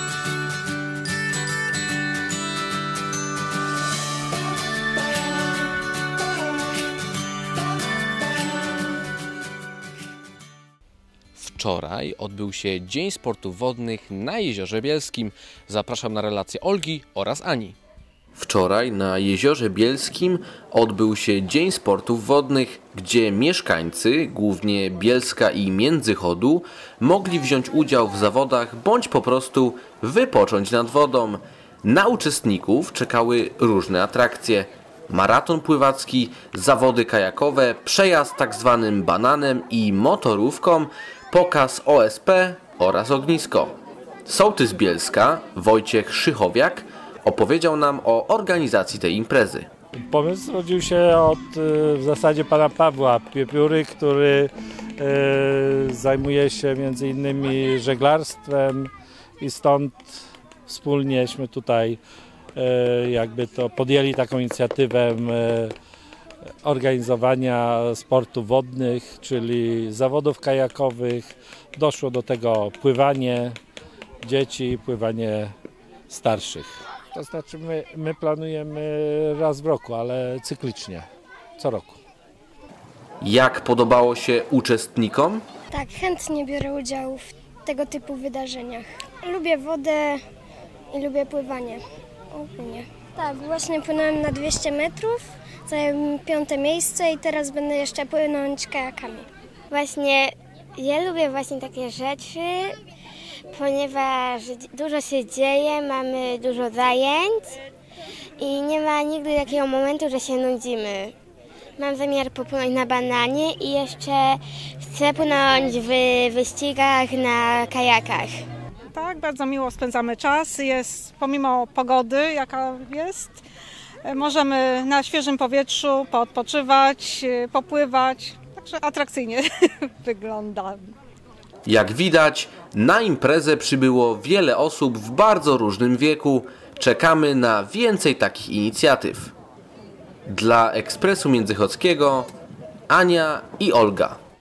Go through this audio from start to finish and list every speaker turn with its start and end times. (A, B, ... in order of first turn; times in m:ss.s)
0:11.4-0:17.8 A
0:18.4-0:43.8 A
0:44.3-0:49.7 A
0:49.9-1:00.1 B
1:00.7-1:02.0 B
1:02.6-1:05.7 B
1:06.6-1:13.6 B
1:14.2-1:15.5 B
1:16.1-1:21.1 B
1:21.6-1:22.0 B
1:23.2-1:25.4 A
1:25.7-1:30.2 C
1:30.9-1:31.8 C
1:32.3-1:39.3 C
1:39.7-1:42.8 D
1:43.5-1:47.6 D
1:48.4-1:51.1 D
1:51.8-1:58.3 D
1:58.9-2:03.4 E
2:04.0-2:10.9 E
2:11.7-2:19.3 A
2:20.3-2:22.3 A
2:22.9-2:24.2 A